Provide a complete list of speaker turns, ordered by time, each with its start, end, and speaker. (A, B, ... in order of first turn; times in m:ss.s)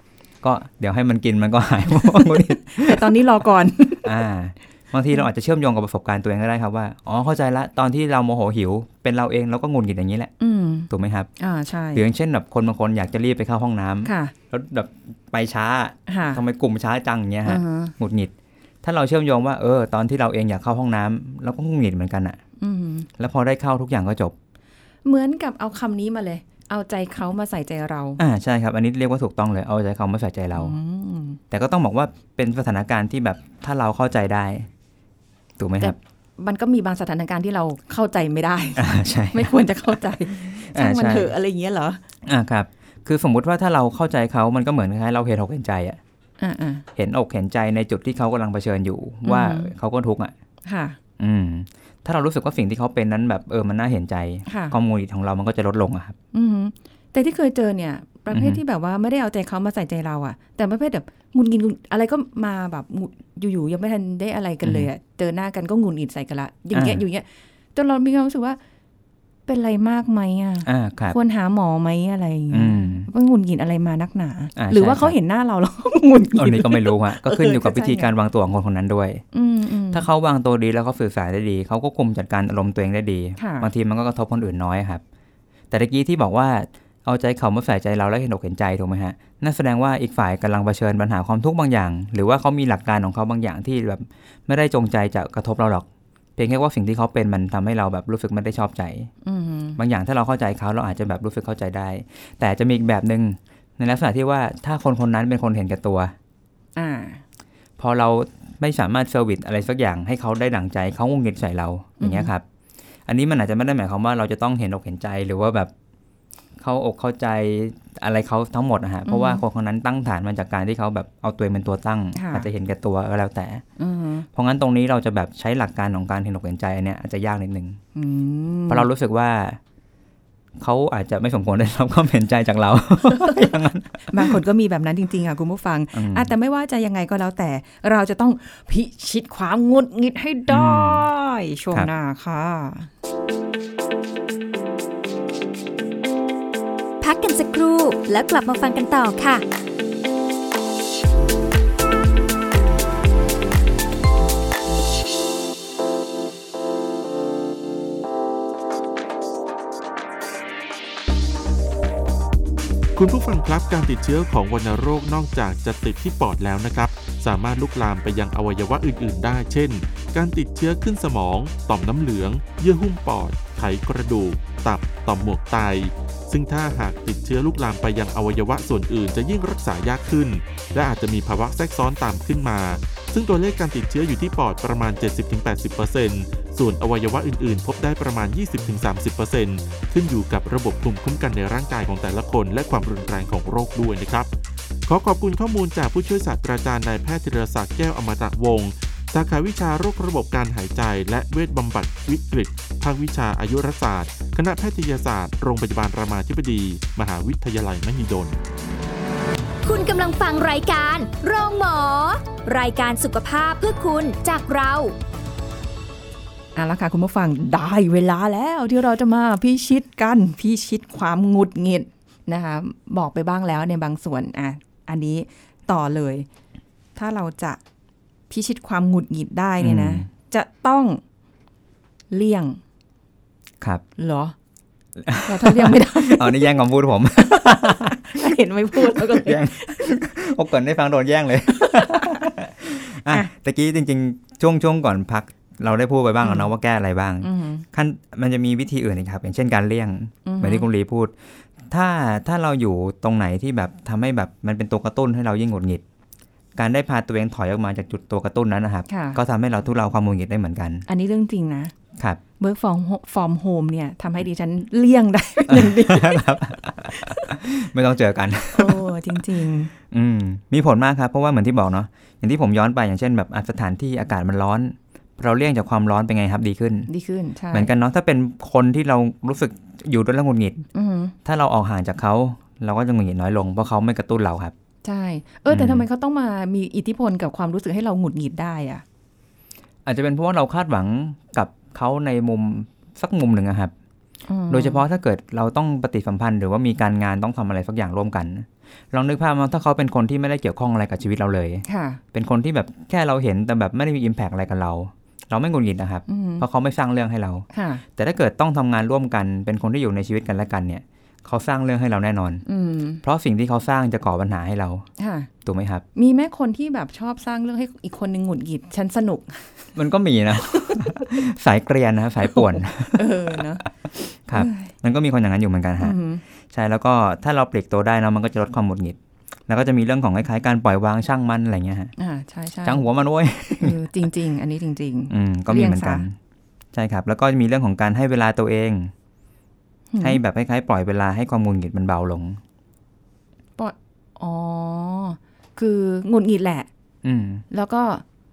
0:00.4-0:03.1 A
0:02.0-0:04.1 B
0:04.0-0:10.3 A
0:10.4-0:12.0 B
0:10.9-0:11.3 A
0:11.9-0:22.4 A
0:14.0-0:14.3 B
0:16.1-0:16.4 B
0:17.4-0:17.9 B
0:22.6-0:23.1 B
0:23.2-0:24.3 A
0:25.0-0:28.2 B
0:28.2-0:30.8 A
0:30.5-0:31.4 B
0:31.5-0:34.7 A
0:35.6-0:36.0 A
0:35.8-0:42.0 B
0:38.8-0:41.3 A
0:42.2-0:46.0 A
0:46.4-0:46.8 B
0:47.0-0:50.3 A
0:49.2-0:49.7 B
0:50.6-0:51.0 B
0:51.2-0:56.2 A
0:54.5-0:54.7 B
0:56.3-1:08.6 B
0:58.3-0:58.6 A
1:04.6-1:04.9 A
1:06.7-1:07.0 A
1:09.5-1:18.1 B
1:10.6-1:11.2 A
1:12.5-1:13.1 A
1:14.6-1:15.2 A
1:16.4-1:19.2 A
1:19.3-1:20.0 B
1:19.9-1:25.0 A
1:23.4-1:23.7 B
1:25.7-1:35.8 A
1:36.4-1:39.1 A
1:39.2-1:39.8 B
1:39.8-1:46.1 A
1:46.8-1:47.2 B
1:47.8-1:52.4 A
1:52.0-1:52.3 B
1:53.1-1:55.7 A
1:56.6-2:03.6 A
1:59.0-1:59.4 B
2:02.1-2:02.5 B
2:03.8-2:04.2 B
2:04.3-2:07.8 A
2:07.9-2:08.9 B
2:08.7-2:09.6 A
2:10.6-2:14.3 A
2:14.1-2:22.9 B
2:15.9-2:16.3 A
2:20.5-2:21.0 A
2:27.0-2:29.4 C
2:42.9-3:14.3 D
3:14.9-3:28.3 D
3:29.6-3:34.9 C
3:36.6-3:46.3 B
3:47.0-3:47.6 B
3:48.3-3:51.0 B
3:49.6-3:50.0 A
3:52.1-3:52.6 B
3:54.0-3:54.3 B
3:55.0-4:11.1 A
3:55.2-3:56.6 B
3:57.2-3:59.8 B
4:01.5-4:02.3 B
4:06.2-4:06.5 B
4:07.2-4:07.6 B
4:10.2-4:10.6 B
4:11.7-4:15.8 A
4:16.6-4:20.8 A
4:18.9-4:19.2 B
4:20.9-4:21.7 B
4:22.4-4:27.4 B
4:25.5-4:28.9 A
4:28.5-4:29.7 B
4:29.9-4:36.9 A
4:36.9-4:37.7 B
4:37.5-4:40.6 A
4:40.7-4:41.1 B
4:41.2-4:44.5 A
4:44.8-4:48.8 B
4:45.5-4:45.8 A
4:49.8-4:53.7 A
4:54.3-4:54.8 B
4:54.5-5:07.4 A
5:01.6-5:02.0 B
5:06.1-5:06.4 B
5:07.5-5:07.8 B
5:08.0-5:12.4 A
5:12.4-5:13.0 B
5:13.0-5:14.9 A
5:15.0-5:15.3 B
5:15.4-5:15.8 A
5:15.9-5:19.7 B
5:19.7-5:26.0 A
5:20.5-5:21.0 B
5:22.3-5:23.6 B
5:24.3-5:24.7 B
5:25.8-5:26.2 B
5:26.5-5:29.0 A
5:29.5-5:31.9 A
5:32.0-5:32.8 B
5:32.6-5:33.8 A
5:33.6-5:36.0 B
5:35.1-5:36.1 A
5:36.7-5:38.9 A
5:39.9-5:40.2 B
5:40.0-5:42.4 A
5:43.6-5:46.7 B
5:47.0-5:47.4 A
5:47.5-5:48.0 B